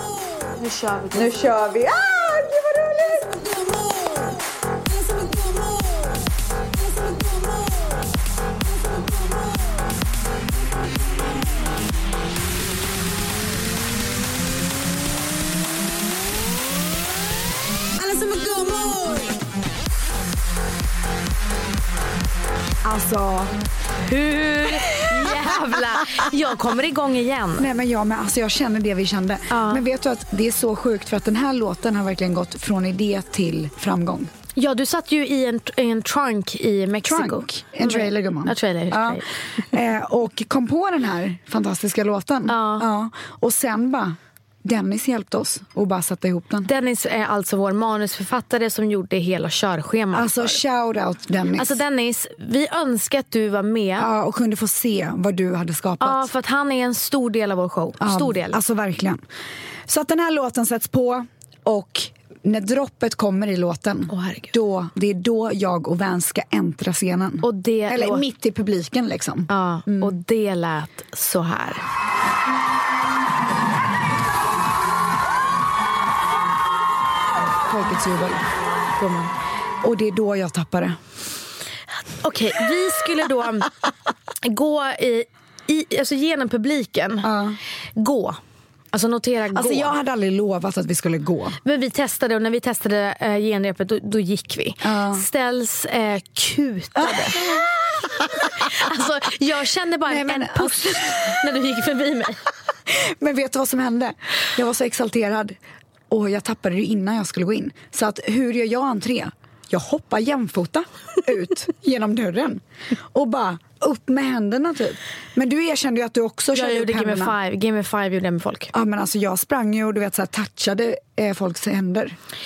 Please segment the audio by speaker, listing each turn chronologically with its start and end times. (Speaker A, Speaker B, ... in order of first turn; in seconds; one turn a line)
Speaker A: 0.5-1.5
Speaker B: 1.1-3.5
Speaker C: 22.8-23.5
Speaker A: 24.1-27.7
Speaker C: 25.0-25.4
Speaker C: 27.6-34.3
Speaker A: 29.5-29.8
Speaker A: 34.5-39.7
Speaker C: 37.0-46.7
Speaker A: 42.5-42.9
Speaker A: 46.6-50.6
Speaker C: 50.1-51.8
Speaker A: 51.6-54.1
Speaker C: 54.0-56.3
Speaker A: 56.0-58.6
Speaker C: 58.0-59.2
Speaker C: 59.9-70.2
Speaker A: 64.1-64.5
Speaker A: 67.4-68.2
Speaker A: 69.5-71.8
Speaker C: 77.6-78.4
Speaker A: 79.0-79.3
Speaker C: 79.8-81.0
Speaker A: 82.1-83.7
Speaker A: 84.4-87.3
Speaker C: 87.2-87.6
Speaker A: 88.0-88.4
Speaker A: 88.9-90.0
Speaker C: 89.5-91.6
Speaker A: 91.6-97.6
Speaker C: 94.8-95.2
Speaker C: 97.0-97.6
Speaker A: 98.2-102.4
Speaker C: 100.1-101.3
Speaker C: 102.9-105.6
Speaker C: 106.1-117.3
Speaker A: 116.5-118.7
Speaker C: 118.7-122.2